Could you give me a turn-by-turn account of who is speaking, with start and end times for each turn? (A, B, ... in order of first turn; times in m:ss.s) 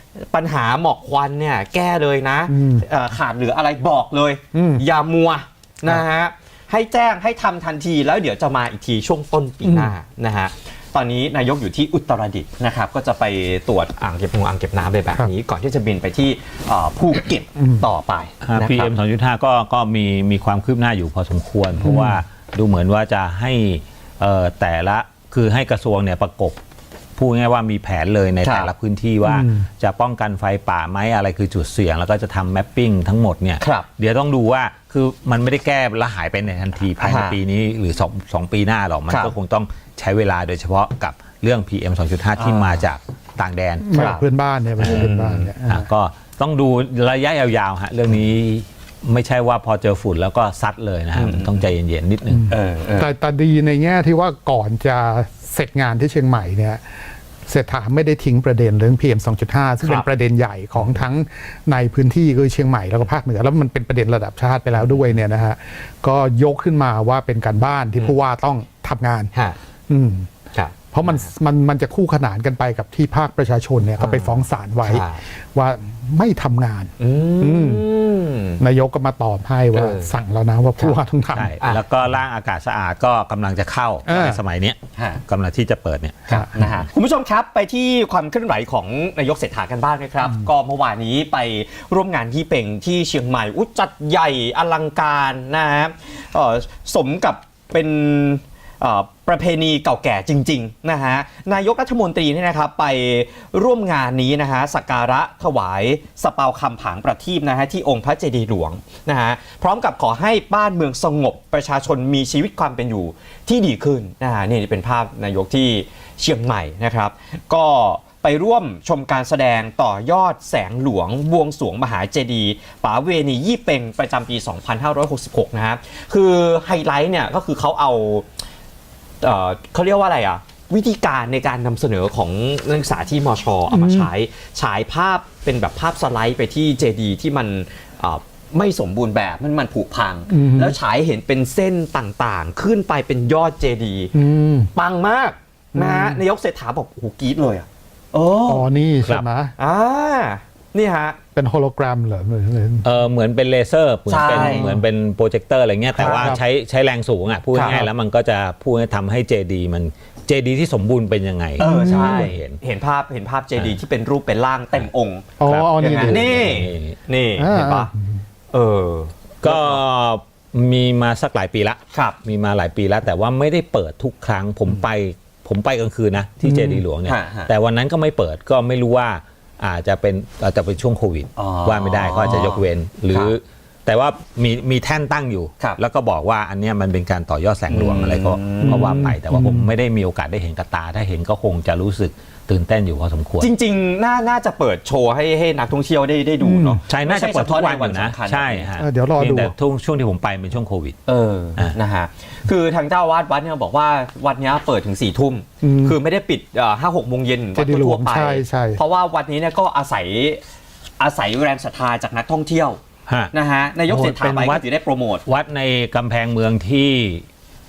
0:00.2-0:18.9 A
0:02.5-0:02.9 B
0:04.5-0:04.8 B
0:09.6-0:09.9 B
0:17.6-0:17.8 B
0:18.4-0:26.6 C
0:21.8-0:22.2 B
0:27.2-0:43.9 C
0:28.4-0:28.7 A
0:29.2-0:29.7 B
0:33.6-0:33.9 A
0:37.0-0:37.4 A
0:39.1-0:39.3 A
0:42.4-0:42.9 A
0:43.8-0:45.8 B
0:43.9-0:44.2 A
0:44.8-0:52.4 C
0:44.8-0:45.5 A
0:51.1-0:51.7 A
0:52.3-0:56.8 B
0:52.5-0:53.1 A
0:57.5-1:09.3 B
1:04.8-1:05.2 A
1:09.9-1:10.3 B
1:10.5-1:11.3 A
1:10.9-1:17.9 B
1:14.0-1:15.2 A
1:17.0-1:18.6 A
1:18.6-1:21.6 B
1:19.7-1:20.1 A
1:21.3-1:26.7 C
1:24.1-1:24.4 B
1:25.0-1:25.2 A
1:26.3-2:08.3 A
2:09.2-2:24.1 A
2:13.7-2:14.1 B
2:20.3-2:20.8 B
2:24.1-2:24.7 B
2:24.7-2:28.7 A
2:25.7-2:26.2 B
2:28.5-2:29.6 B
2:29.6-2:31.2 A
2:31.4-2:32.9 B
2:32.8-2:42.6 C
2:34.1-2:34.7 A
2:34.3-2:34.8 B
2:36.0-2:36.4 B
2:36.0-2:36.3 A
2:37.5-2:37.9 A
2:41.6-2:47.9 A
2:41.6-2:42.3 B
2:45.4-2:46.5 B
2:45.4-2:47.0 C
2:47.4-2:48.2 B
2:48.5-2:49.8 A
2:49.4-3:13.5 C
2:51.9-2:52.2 A
2:56.4-2:56.8 B
2:57.0-2:57.5 A
3:01.4-3:03.4 A
3:07.7-3:09.1 A
3:08.6-3:09.7 B
3:13.4-3:18.7 A
3:16.4-3:16.8 B
3:16.9-3:21.0 C
3:18.8-3:19.5 B
3:21.1-3:30.4 A
3:25.6-3:26.0 B
3:27.6-3:28.8 B
3:31.0-3:32.8 A
3:33.1-3:33.3 C
3:33.3-3:35.2 A
3:33.9-3:34.6 C
3:35.3-3:37.2 C